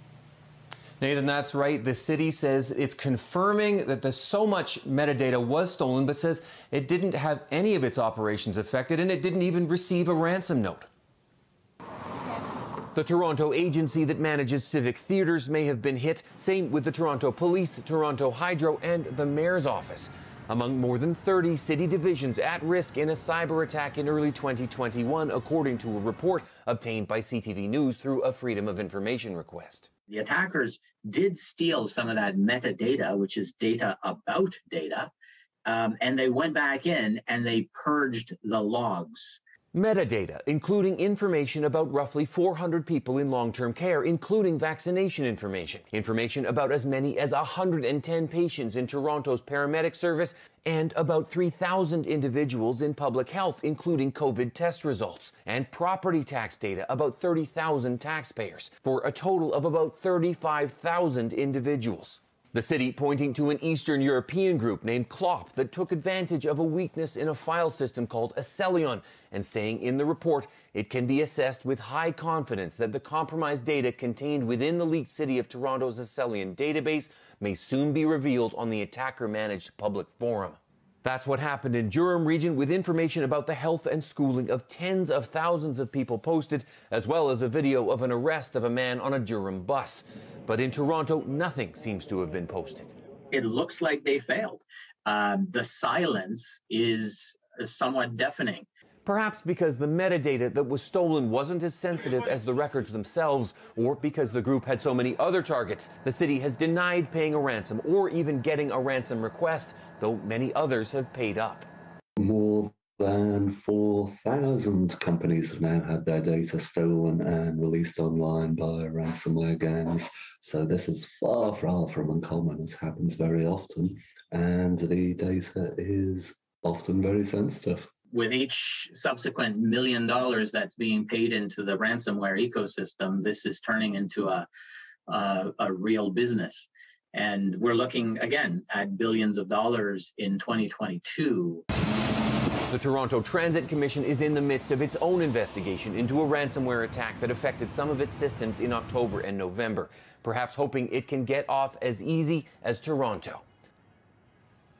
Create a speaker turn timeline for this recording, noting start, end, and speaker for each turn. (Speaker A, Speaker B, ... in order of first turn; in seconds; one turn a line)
Speaker A: 1.0-10.9
Speaker A: 12.9-29.9
Speaker B: 30.1-35.1
Speaker B: 35.6-39.4
Speaker A: 39.7-92.9
Speaker B: 93.3-98.7
Speaker A: 99.1-111.7
Speaker C: 112.2-127.9
Speaker B: 128.1-134.5
Speaker B: 135.1-141.6
Speaker A: 142.7-153.4